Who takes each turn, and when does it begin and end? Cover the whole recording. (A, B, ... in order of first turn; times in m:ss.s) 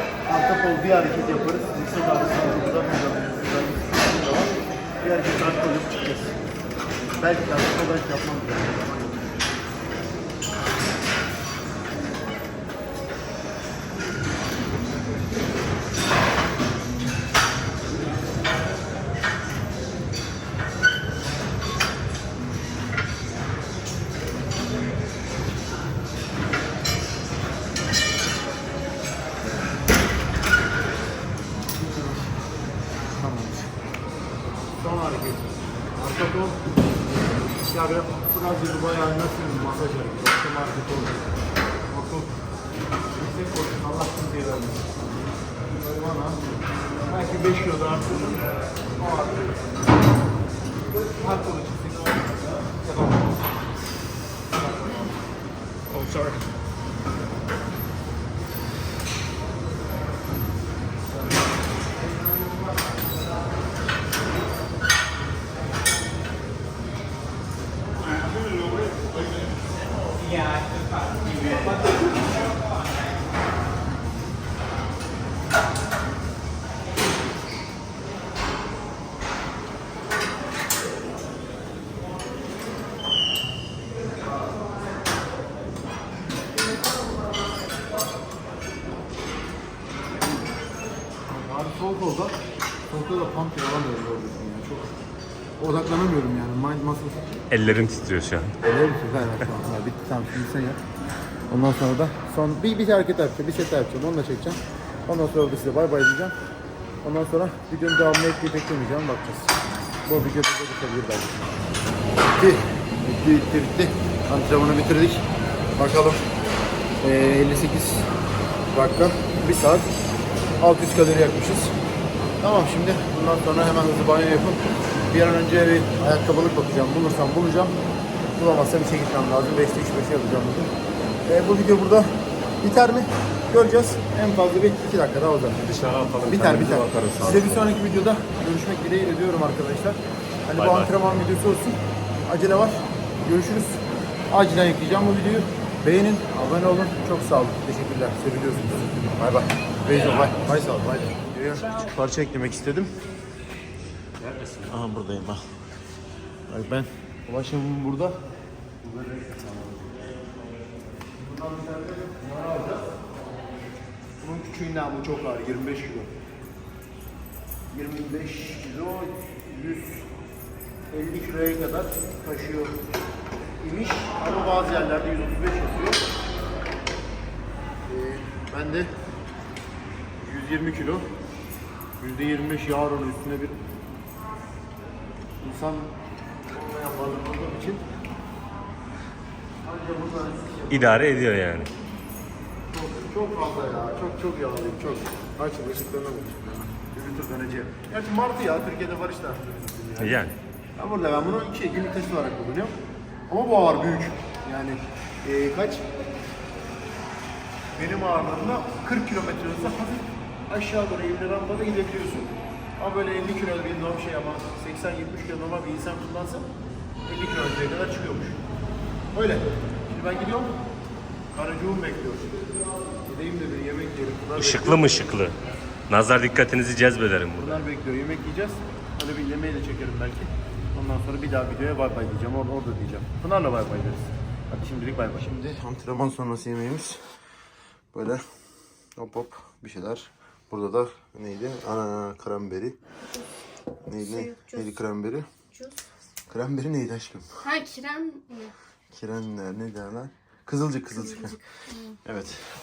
0:00.2-0:06.4 A
0:07.2-0:09.3 A
0:33.2-0:33.7 A
0:34.8-0:41.4 A
0:41.9-0:42.3 A
0:43.1-0:44.9 A
0:45.7-0:46.4 A
0:47.1-0:48.4 A
0:49.0-0:49.6 A
0:50.9-0:53.3 A
0:56.0-0:56.3 A
1:31.3-1:32.4 A
1:32.9-1:34.9 A
1:35.6-1:37.4 A
1:37.5-1:38.6 B
1:38.6-1:40.8 A
1:41.5-1:46.3 A
1:47.0-1:49.5 A
1:50.0-1:51.5 A
1:52.3-1:55.2 A
1:55.8-1:56.3 A
1:57.0-1:58.1 A
1:58.7-1:59.9 A
2:00.6-2:01.7 A
2:02.4-2:07.7 A
2:08.4-2:10.7 A
2:11.3-2:12.1 A
2:12.6-2:15.6 A
2:15.6-2:17.4 B
2:16.2-2:23.8 A
2:17.0-2:17.4 C
2:20.6-2:20.9 B
2:24.3-2:32.9 A
2:34.2-2:35.4 A
2:36.5-2:38.2 A
2:38.8-2:40.1 A
2:41.0-2:42.9 A
2:44.2-2:46.1 A
2:47.7-2:50.1 A
2:50.9-2:52.8 A
2:53.6-2:56.0 A
2:57.9-2:58.9 A
3:00.2-3:01.0 A
3:02.0-3:03.6 A
3:05.4-3:05.9 A
3:06.5-3:07.8 A
3:09.6-3:11.3 A
3:10.7-3:11.7 B
3:12.7-3:20.2 A
3:20.0-3:20.4 B
3:20.8-3:22.7 A
3:23.3-3:25.8 A
3:27.7-3:36.4 A
3:37.0-3:38.4 A
3:39.1-3:40.6 A
3:41.3-3:42.4 A
3:43.0-3:45.1 A
3:44.4-3:45.4 B
3:45.9-3:47.6 B
3:47.4-3:57.0 A
3:57.9-3:58.2 A
3:59.0-4:02.8 A
4:03.8-4:05.3 A
4:04.2-4:04.6 C
4:05.5-4:05.8 C
4:06.3-4:07.4 A
4:07.4-4:08.5 C
4:08.9-4:11.4 A
4:12.0-4:12.4 A